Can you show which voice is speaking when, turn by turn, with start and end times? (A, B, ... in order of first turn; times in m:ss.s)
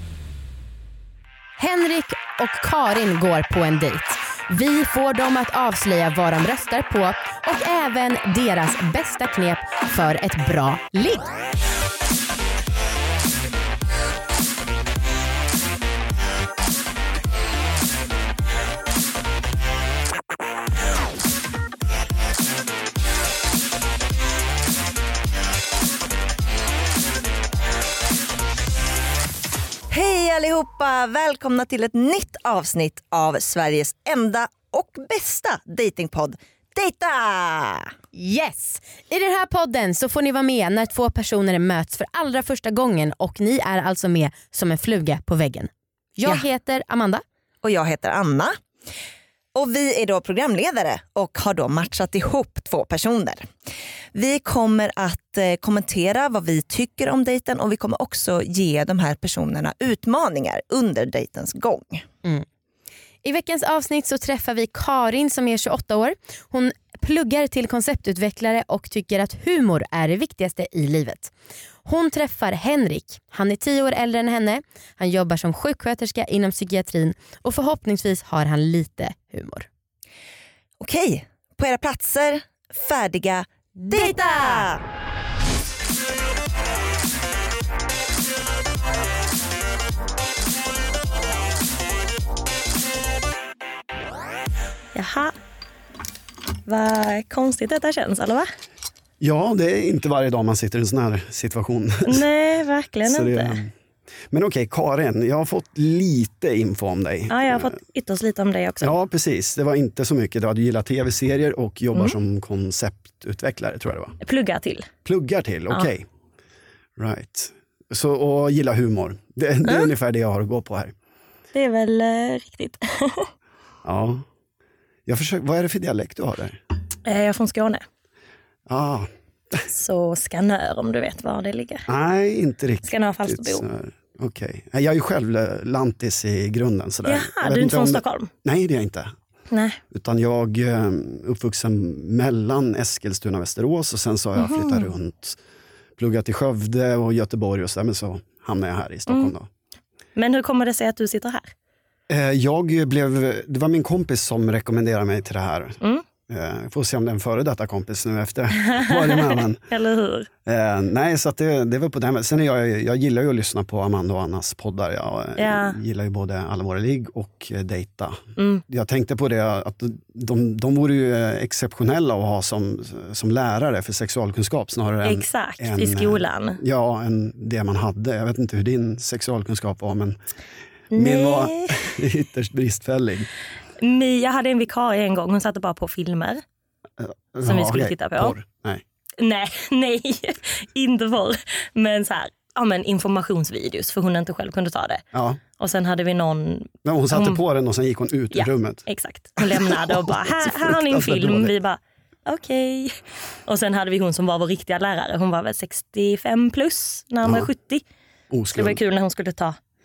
0:01.6-0:11.3 A
0:29.9-0:37.9 B
0:38.1-0:47.2 A
0:47.6-0:48.6 B
0:49.5-0:53.5 B
0:54.1-1:02.0 B
1:03.2-1:11.3 A
1:11.8-1:19.7 A
1:20.8-1:24.8 B
1:34.9-1:35.3 C
1:36.6-1:38.5 C
1:39.2-1:42.2 D
1:42.0-1:43.6 C
1:43.0-1:43.7 D
1:44.3-1:47.7 D
1:47.3-1:48.9 C
1:48.8-1:54.2 D
1:54.2-1:54.9 C
1:55.0-1:56.1 D
1:57.0-2:00.9 D
2:01.5-2:03.3 C
2:03.8-2:04.2 D
2:05.1-2:06.6 D
2:07.0-2:07.8 C
2:08.7-2:09.6 D
2:09.7-2:11.9 C
2:11.9-2:19.1 D
2:12.8-2:13.6 C
2:17.0-2:18.3 C
2:19.5-2:19.8 C
2:19.9-2:25.4 D
2:24.4-2:24.9 C
2:26.0-2:29.5 D
2:29.1-2:29.3 C
2:30.2-2:31.5 C
2:32.1-2:39.6 D
2:38.7-2:40.3 C
2:40.4-3:00.2 D
2:45.4-2:45.8 C
2:48.4-2:48.6 C
2:55.0-2:56.6 C
3:00.9-3:03.3 D
3:00.9-3:01.8 C
3:03.8-3:06.4 C
3:07.0-3:08.8 D
3:07.4-3:08.4 C
3:09.2-3:15.0 C
3:15.1-3:15.4 D
3:15.6-3:17.4 C
3:16.8-3:18.8 D
3:18.3-3:27.8 C
3:19.4-3:21.5 D
3:27.2-3:27.5 D
3:28.3-3:28.8 D
3:28.5-3:29.6 C